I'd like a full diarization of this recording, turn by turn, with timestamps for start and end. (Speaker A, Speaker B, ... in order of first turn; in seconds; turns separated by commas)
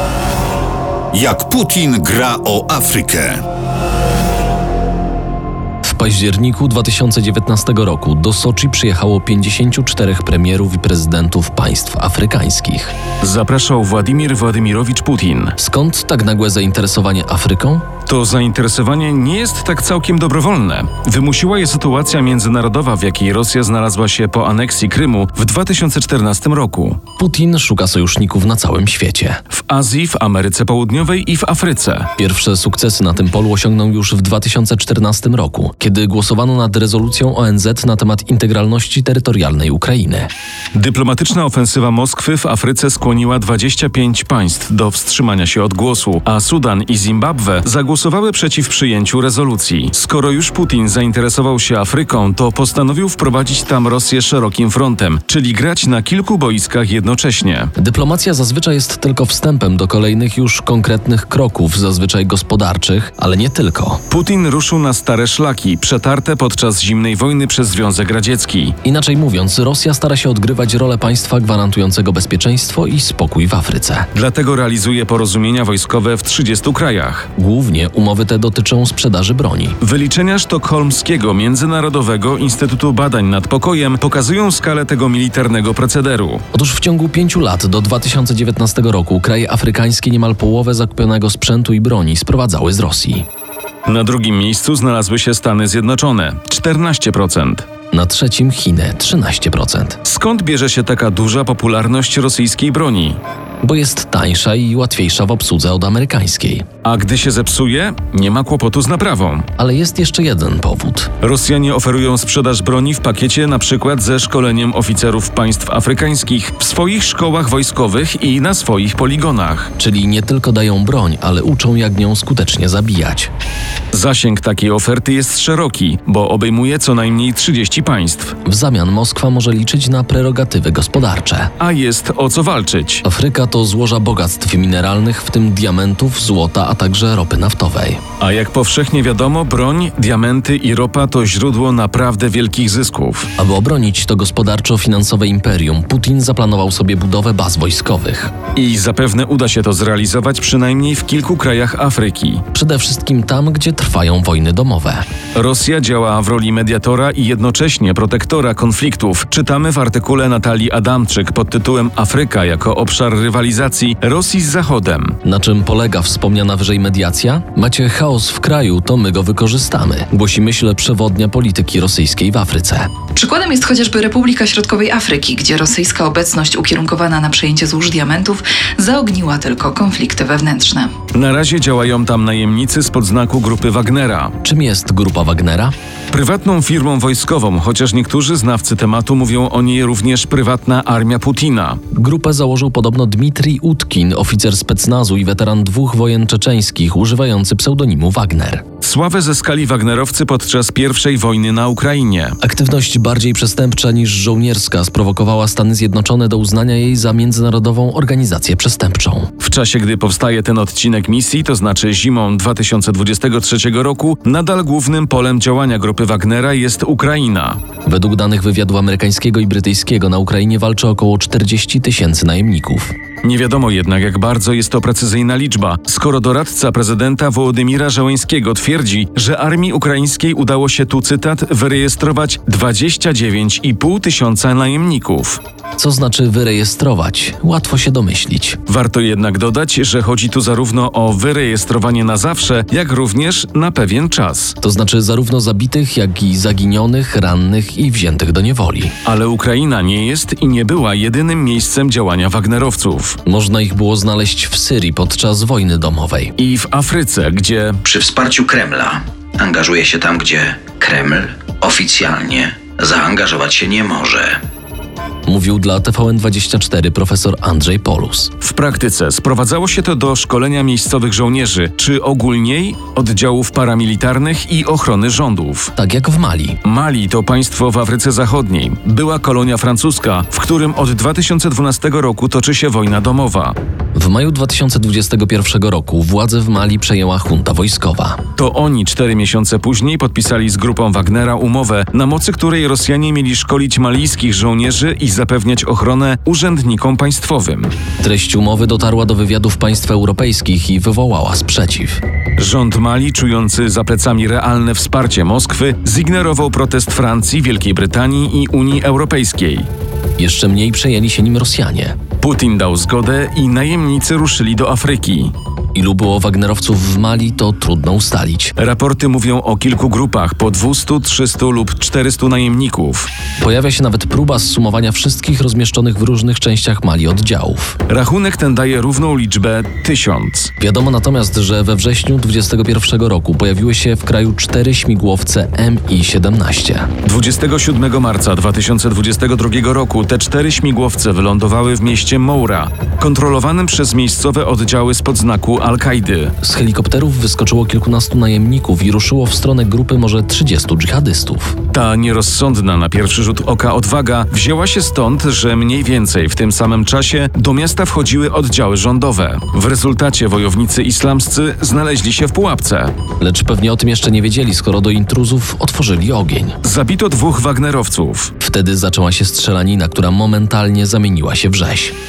Speaker A: 1.1-3.4, Speaker B: 5.8-12.9, Speaker C: 13.2-15.6, Speaker B: 15.6-17.9, Speaker C: 18.1-27.0, Speaker B: 27.2-29.4, Speaker C: 29.5-32.1, Speaker B: 32.2-40.3, Speaker C: 40.7-57.7, Speaker B: 57.8-64.0, Speaker C: 64.1-68.8, Speaker B: 68.8-74.1, Speaker C: 74.1-77.3, Speaker B: 77.3-79.8, Speaker C: 79.8-86.4, Speaker B: 86.5-93.2, Speaker C: 93.8-97.7, Speaker B: 97.9-100.0, Speaker C: 100.0-103.2, Speaker B: 103.6-106.6, Speaker C: 106.8-109.5, Speaker B: 109.6-111.1, Speaker C: 111.2-119.7, Speaker B: 119.8-123.3, Speaker C: 123.9-128.4, Speaker B: 128.4-131.5, Speaker C: 131.6-133.0, Speaker B: 133.0-138.0, Speaker C: 138.2-143.3, Speaker B: 143.4-148.3, Speaker C: 148.5-152.4, Speaker B: 152.5-155.0, Speaker C: 155.3-165.2, Speaker B: 165.2-172.9, Speaker D: 173.2-180.9, Speaker C: 181.1-184.4, Speaker B: 184.4-185.7, Speaker C: 186.1-191.8, Speaker B: 191.9-198.6, Speaker C: 198.8-202.4, Speaker B: 202.4-209.3, Speaker C: 209.4-217.6, Speaker B: 217.8-222.9, Speaker C: 223.2-235.4, Speaker B: 235.8-238.6, Speaker C: 238.7-244.6, Speaker B: 244.6-248.9, Speaker C: 249.0-253.2, Speaker B: 253.2-256.3, Speaker C: 256.4-257.8, Speaker E: 257.8-264.4, Speaker B: 265.2-268.3, Speaker C: 268.4-275.7, Speaker B: 275.8-276.6, Speaker C: 276.6-283.5, Speaker B: 283.9-288.2, Speaker C: 288.4-297.7, Speaker B: 298.0-302.0, Speaker C: 302.4-309.7, Speaker B: 310.2-311.9, Speaker C: 312.2-315.3, Speaker B: 315.7-318.5, Speaker C: 318.6-323.1, Speaker B: 323.4-327.8, Speaker C: 327.9-330.5, Speaker B: 330.6-336.9, Speaker C: 337.0-346.3, Speaker B: 346.4-351.6, Speaker C: 351.7-362.9, Speaker B: 363.2-366.6, Speaker C: 366.6-368.3, Speaker B: 368.4-371.9